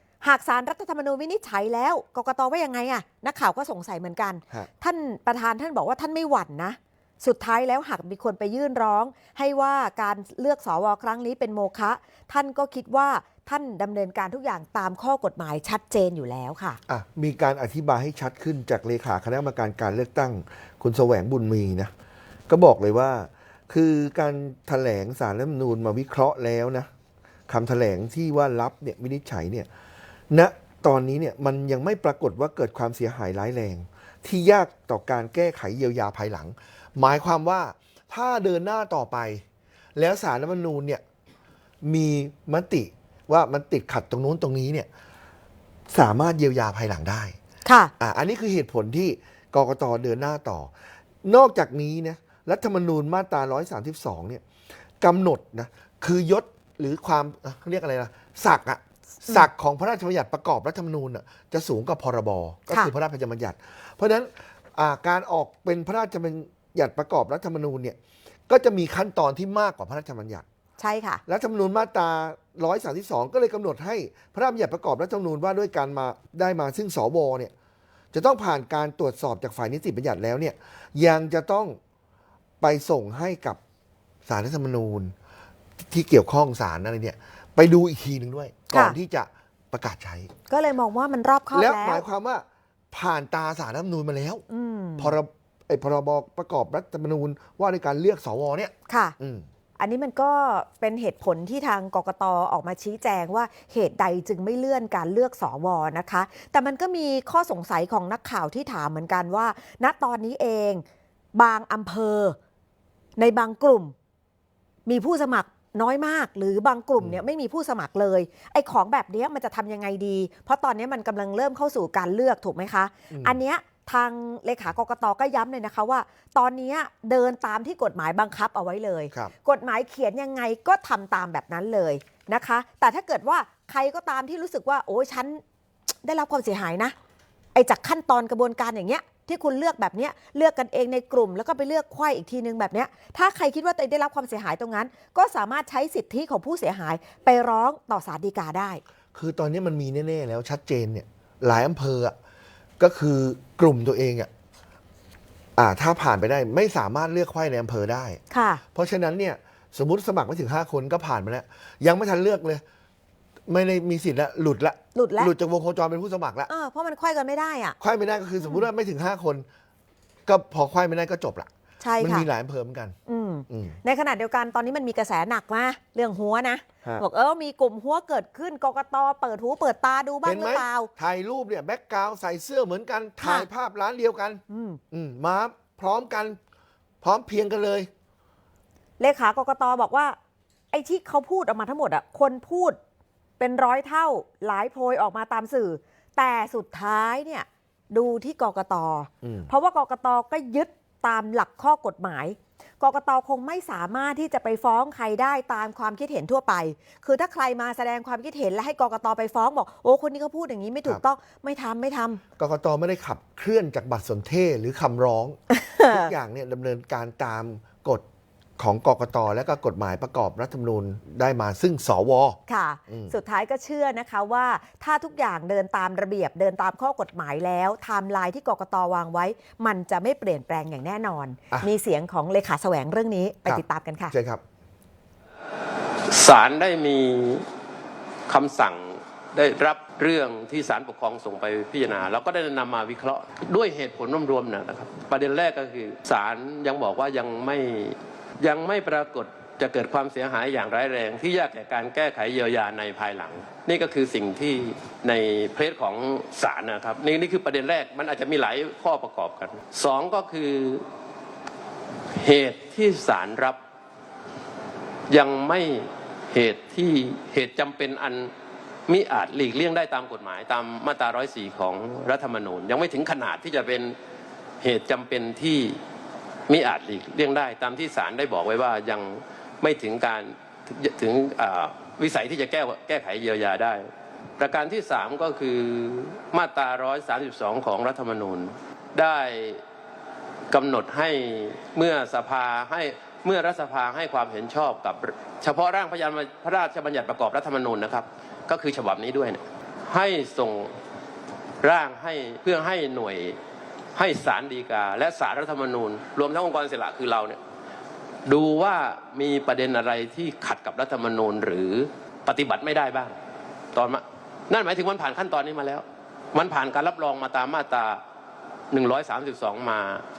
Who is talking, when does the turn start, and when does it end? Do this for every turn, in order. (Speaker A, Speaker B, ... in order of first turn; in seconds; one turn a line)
Speaker A: 0.2-16.8
Speaker B: 16.9-21.9
Speaker B: 22.5-26.9
Speaker B: 27.5-29.7
Speaker B: 30.3-39.4
Speaker B: 40.0-41.0
Speaker B: 41.8-44.9
Speaker B: 45.9-47.4
Speaker A: 47.6-47.9
Speaker B: 48.0-50.7
Speaker B: 51.2-54.4
Speaker B: 55.0-68.0
Speaker B: 68.5-70.5
Speaker A: 70.8-71.2
Speaker B: 71.3-77.5
Speaker B: 78.1-81.8
Speaker B: 82.6-83.6
Speaker B: 84.3-85.1
Speaker B: 85.8-90.3
Speaker A: 88.7-89.0
Speaker A: 90.5-92.0
Speaker B: 91.5-94.5
Speaker A: 94.5-95.2
Speaker B: 95.0-99.5
Speaker A: 98.9-99.2
Speaker A: 99.8-112.4
Speaker A: 113.2-113.9
Speaker A: 114.9-136.9
Speaker B: 123.1-123.4
Speaker A: 137.6-148.8
Speaker B: 149.1-152.2
Speaker B: 152.8-154.3
Speaker B: 155.6-158.2
Speaker A: 158.3-158.6
Speaker B: 158.7-162.6
Speaker B: 163.5-166.5
Speaker A: 164.9-165.3
Speaker A: 166.5-167.8
Speaker B: 167.8-169.5
Speaker B: 170.3-172.9
Speaker A: 171.8-172.3
Speaker A: 173.1-180.9
Speaker B: 173.5-173.8
Speaker B: 180.2-186.4
Speaker A: 183.2-183.5
Speaker A: 184.5-184.8
Speaker B: 187.0-187.9
Speaker A: 189.0-190.2
Speaker A: 190.7-192.8
Speaker A: 193.4-212.2
Speaker B: 199.2-199.5
Speaker B: 212.4-218.0
Speaker A: 215.5-216.1
Speaker B: 218.6-223.1
Speaker A: 222.5-234.1
Speaker B: 233.5-234.4
Speaker C: 236.1-237.4
Speaker C: 238.3-260.9
Speaker C: 262.1-263.6
Speaker C: 265.1-268.3
Speaker C: 268.9-273.9
Speaker C: 274.6-275.8
Speaker C: 276.5-283.9
Speaker C: 284.4-289.6
Speaker C: 290.5-300.8
Speaker C: 301.6-303.4
Speaker C: 303.9-307.4
Speaker C: 308.3-313.1
Speaker C: 313.7-318.0
Speaker C: 318.7-320.0